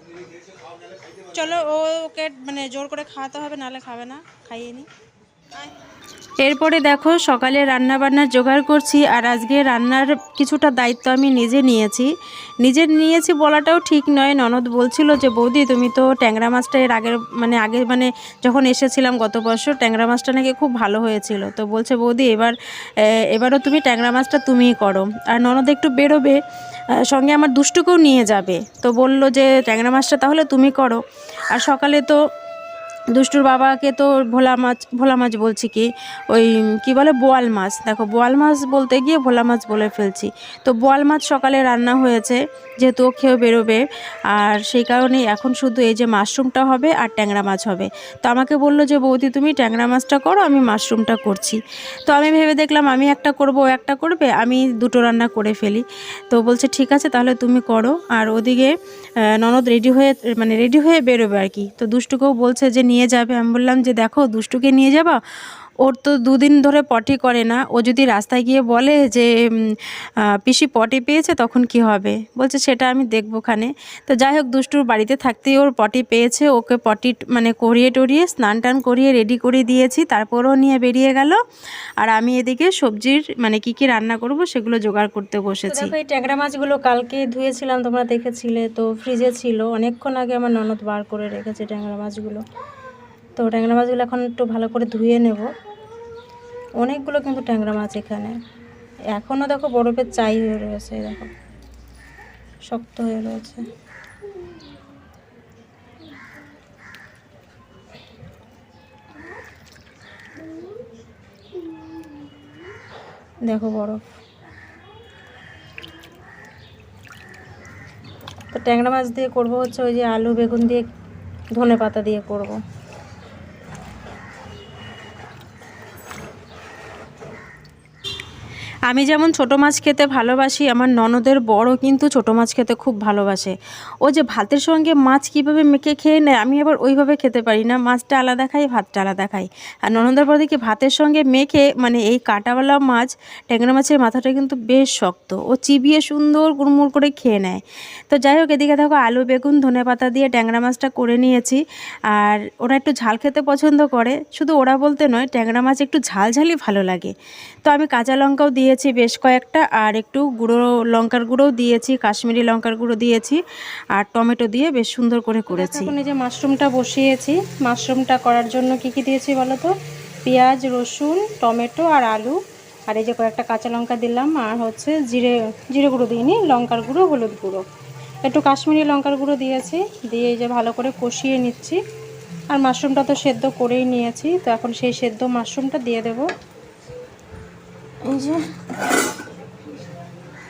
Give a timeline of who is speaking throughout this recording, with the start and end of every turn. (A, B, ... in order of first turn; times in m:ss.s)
0:01.3-0:04.9 A
0:06.4-0:12.1 A
0:12.6-0:26.4 A
0:27.0-0:32.2 A
0:33.1-1:05.2 A
1:05.8-1:21.4 A
1:22.0-1:25.9 A
1:25.7-1:32.4 B
1:33.4-1:35.5 B
1:36.8-1:37.1 A
1:36.9-1:37.9 B
1:37.8-1:38.3 A
1:39.3-1:40.1 A
1:40.1-1:41.3 B
1:42.7-1:43.6 B
1:53.5-1:54.0 B
1:58.5-2:00.9 B
2:01.6-2:02.6 B
2:08.9-2:37.1 A
2:37.6-2:43.4 A
2:43.9-2:45.9 A
2:45.5-2:49.7 B
2:50.2-2:52.4 B
2:52.9-2:57.6 B
2:58.2-3:01.8 B
3:02.5-3:06.3 B
3:08.0-3:08.4 B